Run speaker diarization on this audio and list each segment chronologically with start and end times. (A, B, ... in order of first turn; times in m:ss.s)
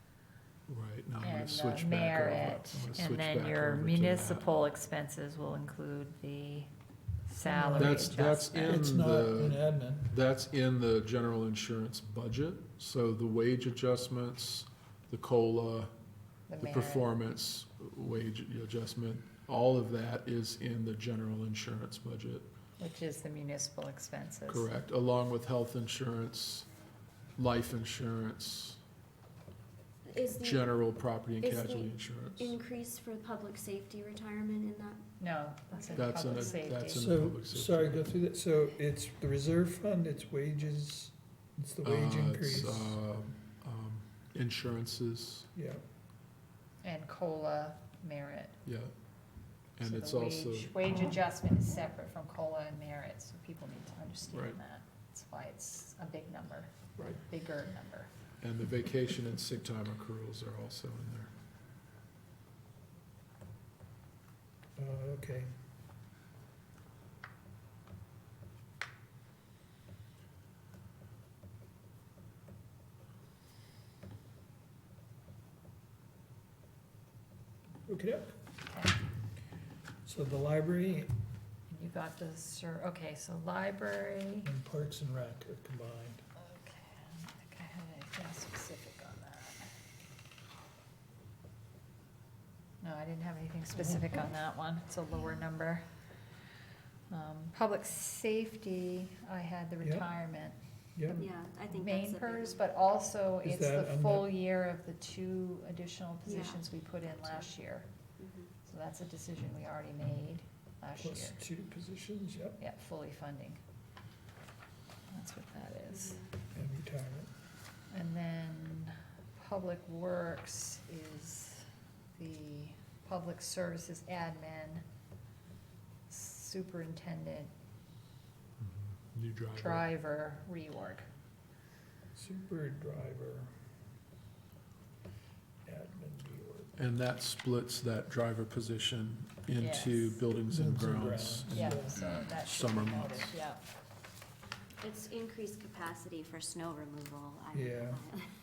0:00.7-0:04.5 A
0:01.2-0:06.7 B
0:07.3-0:08.9 B
0:07.4-0:10.1 C
0:07.8-0:15.9 A
0:16.5-0:17.1 B
0:16.6-0:22.5 A
0:22.8-0:24.7 B
0:24.5-0:26.7 A
0:27.4-0:28.8 A
0:30.0-0:30.7 D
0:30.4-0:32.6 A
0:31.4-0:35.0 D
0:35.2-0:37.1 B
0:35.7-0:36.8 D
0:36.0-0:38.1 A
0:36.9-0:43.0 C
0:41.8-0:45.5 A
0:45.6-0:45.8 C
0:46.8-0:48.6 B
0:48.6-0:48.9 A
0:49.8-0:51.1 A
0:49.8-0:58.1 B
0:54.3-0:54.6 A
0:58.4-1:01.3 A
1:04.8-1:05.5 C
1:17.9-1:18.4 C
1:18.7-1:19.0 B
1:20.0-1:21.1 C
1:21.7-1:24.5 B
1:24.4-1:26.2 C
1:26.4-1:29.7 B
1:32.8-1:35.9 B
1:37.1-1:40.6 B
1:39.8-1:40.1 C
1:41.0-1:41.3 C
1:41.1-1:42.6 D
1:41.7-1:47.9 B
1:43.4-1:44.4 C
1:46.3-1:46.7 D
1:48.2-1:48.5 D
1:48.6-1:51.4 B
1:51.0-1:52.6 C
1:52.6-1:53.6 B
1:55.1-1:56.3 B
1:55.9-1:56.3 D
1:56.5-1:57.3 C
1:57.9-2:04.8 B
2:06.1-2:07.5 B
2:08.6-2:09.9 A
2:09.6-2:11.1 B
2:12.2-2:13.5 C
2:15.7-2:16.8 C
2:16.8-2:23.4 A
2:19.6-2:20.2 B
2:20.5-2:22.0 C
2:21.5-2:23.6 B
2:24.8-2:28.3 D
2:27.5-2:28.0 C